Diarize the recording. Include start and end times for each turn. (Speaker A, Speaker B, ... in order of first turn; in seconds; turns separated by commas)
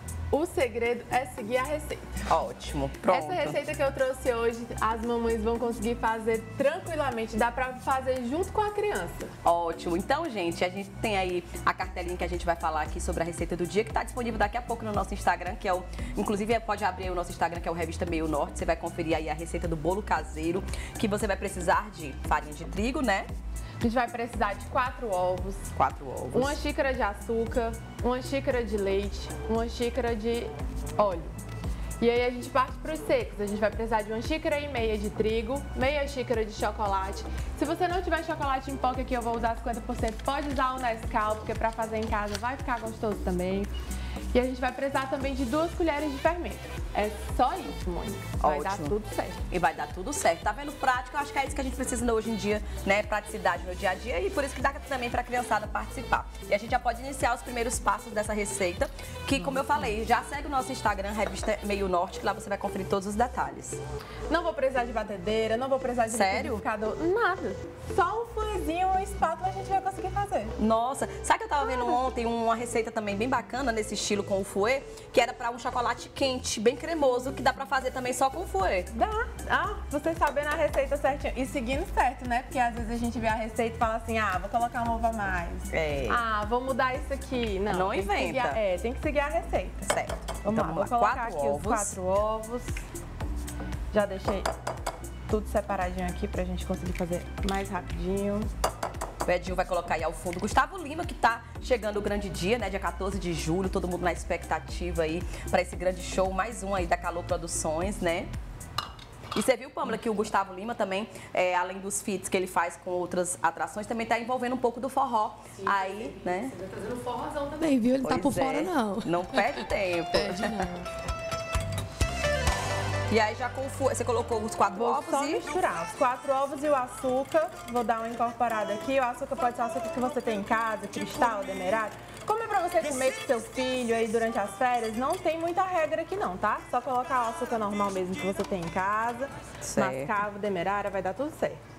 Speaker A: 0.3-2.2, Speaker B: 2.3-3.6, Speaker A: 3.0-9.3, Speaker B: 9.4-23.3, Speaker A: 23.8-25.7, Speaker B: 25.7-26.6, Speaker A: 26.3-31.3, Speaker A: 32.0-43.7, Speaker A: 44.3-49.4, Speaker B: 48.4-48.9, Speaker B: 49.5-63.8, Speaker A: 64.3-70.5, Speaker B: 66.1-66.6, Speaker B: 70.6-78.9, Speaker A: 78.9-89.9, Speaker B: 85.7-86.2, Speaker B: 87.7-88.6, Speaker B: 89.9-92.0, Speaker A: 90.4-92.8, Speaker A: 93.9-94.5, Speaker A: 95.3-98.5, Speaker B: 99.2-108.3, Speaker B: 109.3-116.6, Speaker C: 116.6-120.9, Speaker B: 118.0-120.7, Speaker B: 123.1-125.5, Speaker A: 124.7-141.6, Speaker B: 139.6-140.1